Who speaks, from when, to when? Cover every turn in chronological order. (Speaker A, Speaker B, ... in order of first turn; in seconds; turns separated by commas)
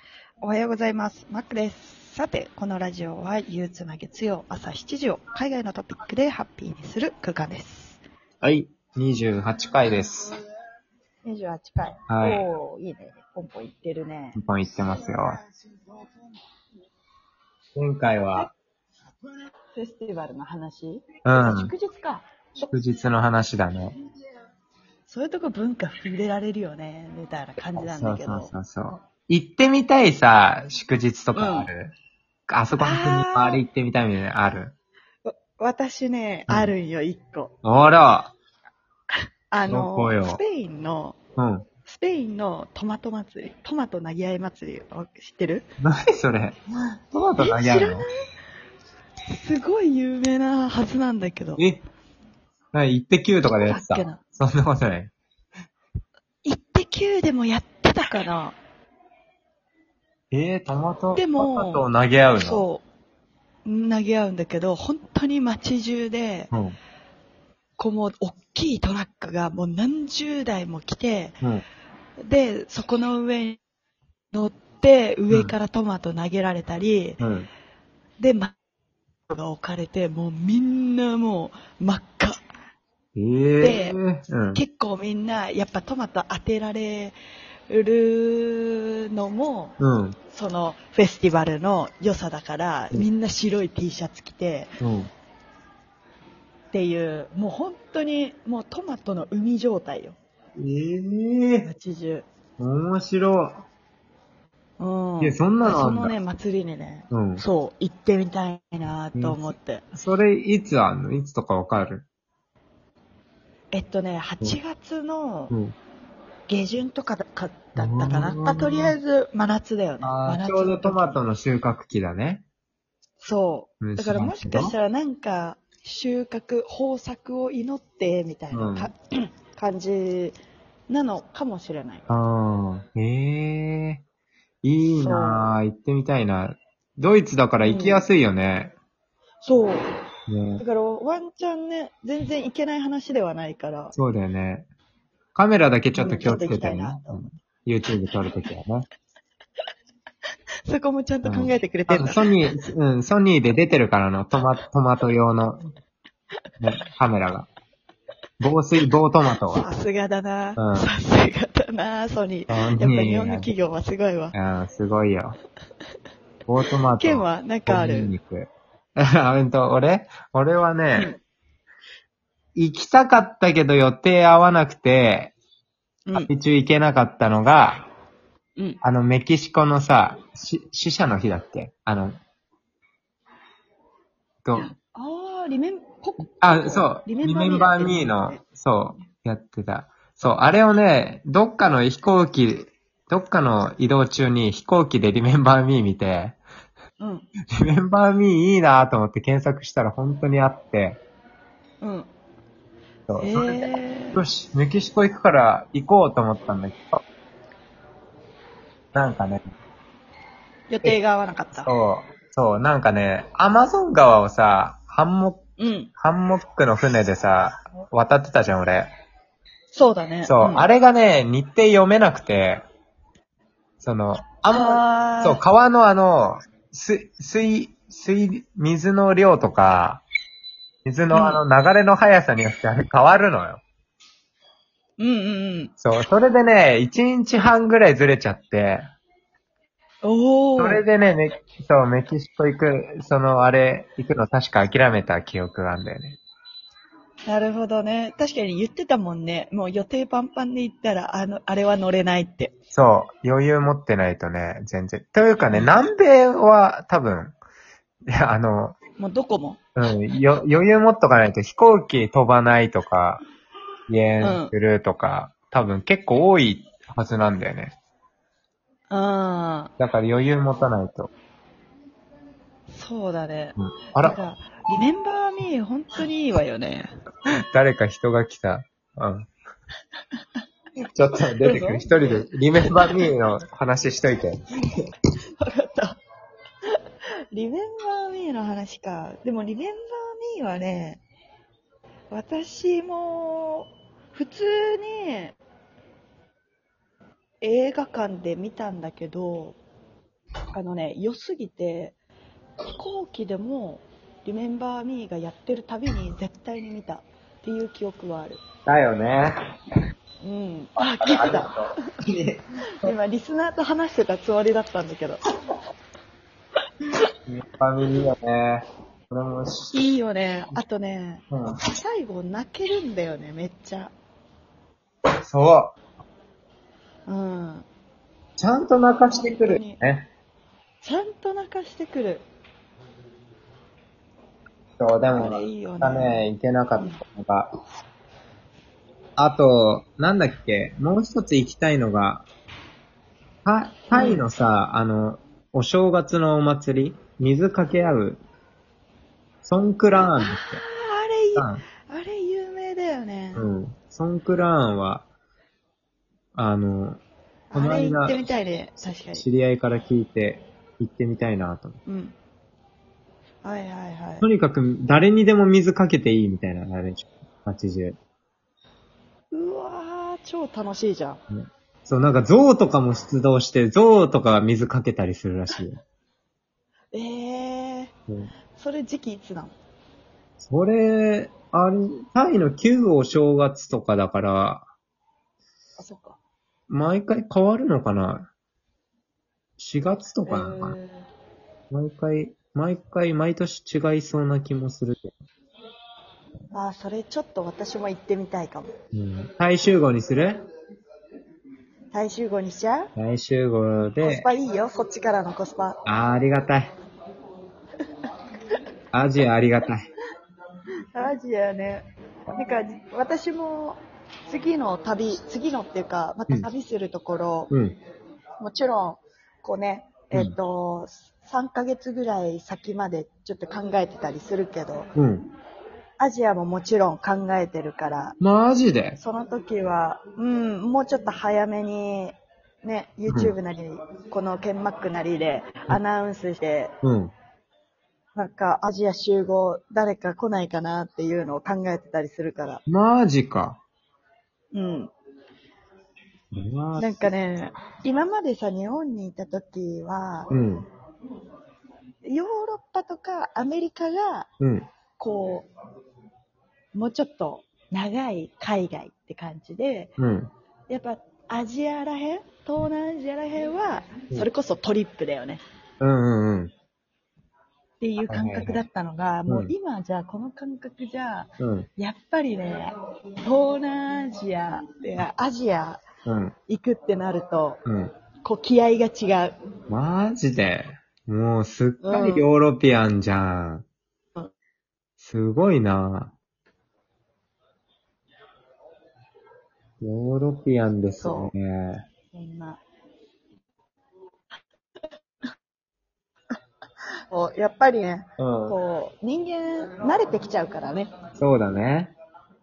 Speaker A: 0.4-8.0, Speaker B: 8.4-10.3, Speaker A: 11.2-14.4, Speaker B: 12.1-12.5, Speaker B: 14.3-15.4, Speaker B: 17.7-18.5, Speaker A: 19.7-22.3, Speaker B: 21.2-21.7, Speaker B: 22.7-23.9, Speaker A: 25.1-28.5, Speaker B: 27.8-31.9, Speaker A: 31.3-31.7, Speaker B: 32.5-34.7, Speaker A: 32.8-33.6, Speaker A: 35.2-37.5, Speaker B: 37.6-38.3, Speaker A: 39.5-41.2, Speaker B: 39.7-40.4, Speaker B: 41.4-41.7, Speaker A: 41.9-45.7, Speaker B: 45.8-46.5, Speaker B: 47.1-48.0, Speaker A: 47.4-48.1, Speaker A: 49.3-51.6, Speaker B: 51.6-51.8, Speaker B: 52.7-55.1, Speaker A: 53.6-54.2, Speaker A: 56.4-58.6, Speaker B: 60.3-62.6, Speaker A: 61.1-62.8, Speaker A: 63.6-66.5, Speaker B: 66.5-66.8, Speaker A: 67.8-71.3, Speaker A: 72.2-73.6, Speaker A: 74.3-77.2, Speaker B: 77.2-77.5, Speaker A: 78.2-78.5, Speaker A: 79.3-82.4, Speaker B: 83.1-84.6, Speaker A: 83.6-84.0, Speaker A: 84.5-87.2, Speaker A: 87.7-89.8, Speaker B: 89.8-90.2, Speaker A: 90.3-94.7, Speaker B: 94.8-95.1, Speaker A: 96.7-100.2, Speaker B: 100.6-101.7, Speaker A: 101.6-102.2, Speaker B: 102.6-103.5, Speaker A: 104.8-109.8, Speaker B: 105.2-106.1, Speaker B: 107.1-107.4, Speaker B: 109.1-112.0, Speaker A: 113.7-115.5, Speaker B: 115.5-115.8, Speaker A: 116.5-121.2, Speaker B: 117.8-118.9, Speaker B: 120.0-122.4, Speaker A: 123.2-132.0, Speaker B: 123.8-124.7, Speaker B: 128.5-128.9, Speaker B: 132.1-134.0, Speaker B: 134.6-138.7, Speaker A: 134.9-135.5, Speaker A: 137.6-138.1, Speaker A: 139.4-139.9, Speaker B: 140.3-140.6, Speaker A: 140.6-143.9, Speaker B: 143.9-144.7, Speaker B: 145.3-148.9, Speaker A: 145.9-147.3, Speaker A: 150.7-152.3, Speaker B: 151.2-155.6, Speaker B: 156.6-157.5, Speaker B: 158.4-159.6, Speaker A: 159.5-164.3, Speaker B: 160.6-160.9, Speaker B: 162.5-163.5, Speaker B: 164.3-165.3, Speaker B: 166.5-171.1, Speaker A: 167.0-168.1, Speaker B: 172.6-175.3, Speaker A: 176.1-176.3, Speaker B: 176.1-177.9, Speaker B: 178.8-182.2, Speaker B: 184.4-184.7, Speaker A: 184.6-188.4, Speaker B: 186.4-196.4, Speaker A: 197.0-197.3, Speaker B: 197.5-201.0, Speaker A: 201.8-202.1, Speaker B: 203.1-207.0, Speaker A: 203.2-204.2, Speaker B: 208.9-209.4, Speaker A: 210.7-211.7, Speaker B: 211.6-215.4, Speaker A: 215.6-215.9, Speaker B: 216.0-218.9, Speaker A: 219.7-220.7, Speaker B: 220.2-222.6, Speaker B: 223.8-230.0, Speaker A: 224.5-225.4, Speaker B: 230.8-233.6, Speaker A: 231.1-231.4, Speaker A: 235.0-235.7, Speaker B: 235.8-238.8, Speaker A: 240.0-240.8, Speaker B: 240.6-246.2, Speaker A: 247.3-252.5, Speaker B: 252.7-257.4, Speaker B: 258.1-258.8, Speaker A: 259.0-259.6, Speaker B: 259.8-263.2, Speaker B: 263.9-267.7, Speaker A: 264.2-264.5, Speaker A: 268.9-269.7, Speaker B: 269.8-271.1, Speaker A: 272.7-276.9, Speaker B: 273.6-274.2, Speaker B: 277.5-279.3, Speaker B: 280.9-284.8, Speaker A: 281.4-283.1, Speaker A: 285.4-286.0, Speaker A: 287.3-291.0, Speaker A: 292.1-295.4, Speaker A: 297.4-299.6, Speaker A: 300.5-301.9, Speaker A: 302.8-308.4, Speaker B: 308.6-309.3, Speaker A: 310.2-311.5, Speaker B: 310.8-312.9, Speaker A: 312.8-315.2, Speaker B: 317.2-319.8, Speaker A: 319.7-323.9, Speaker B: 321.3-321.6, Speaker B: 325.2-325.7, Speaker A: 327.1-327.6, Speaker B: 328.4-330.1, Speaker A: 329.1-329.8, Speaker A: 330.8-332.2, Speaker B: 334.8-337.5, Speaker A: 335.1-336.2, Speaker B: 339.2-342.2, Speaker B: 343.4-348.2, Speaker A: 343.9-344.2, Speaker B: 349.4-350.6, Speaker A: 350.2-353.4, Speaker B: 351.3-351.6, Speaker B: 353.3-355.1, Speaker B: 356.3-357.0, Speaker A: 357.5-359.2, Speaker B: 357.5-358.2, Speaker B: 359.1-361.8, Speaker A: 361.9-362.1, Speaker A: 363.4-364.3, Speaker B: 364.2-368.0, Speaker A: 369.3-371.2, Speaker B: 371.3-375.8, Speaker A: 376.9-377.9, Speaker A: 378.5-379.6, Speaker B: 380.4-384.7, Speaker A: 385.8-386.2, Speaker B: 386.7-388.3, Speaker B: 389.6-390.8, Speaker A: 390.3-391.0, Speaker B: 391.7-395.1, Speaker A: 396.5-398.7, Speaker B: 398.9-400.4, Speaker A: 401.9-402.9, Speaker B: 402.9-404.3, Speaker A: 404.0-405.8, Speaker B: 405.8-406.7, Speaker B: 408.9-409.9, Speaker A: 410.9-417.5, Speaker B: 417.5-417.8, Speaker A: 418.4-424.9, Speaker B: 424.9-425.3, Speaker A: 426.0-428.1, Speaker B: 428.2-429.0, Speaker A: 429.0-436.7, Speaker B: 433.1-433.3, Speaker B: 436.8-437.1, Speaker A: 438.1-442.6, Speaker B: 442.7-443.6, Speaker A: 444.5-444.9, Speaker B: 446.3-447.1, Speaker A: 446.8-450.3, Speaker B: 450.3-450.7, Speaker A: 452.0-454.3, Speaker B: 454.4-454.7, Speaker A: 455.0-455.5, Speaker A: 456.7-459.9, Speaker B: 460.0-460.3, Speaker A: 460.7-465.4, Speaker B: 465.8-466.5, Speaker A: 467.8-472.7, Speaker B: 468.0-468.6, Speaker B: 471.4-471.7, Speaker A: 473.2-475.8, Speaker B: 476.1-476.3, Speaker A: 476.5-477.6, Speaker B: 477.6-477.9, Speaker A: 478.2-479.3, Speaker B: 479.7-483.6, Speaker A: 481.8-482.2, Speaker B: 485.0-486.1, Speaker B: 489.8-491.8, Speaker A: 491.0-491.3, Speaker A: 492.1-492.6, Speaker A: 497.1-500.9, Speaker B: 498.2-498.6, Speaker B: 501.2-501.9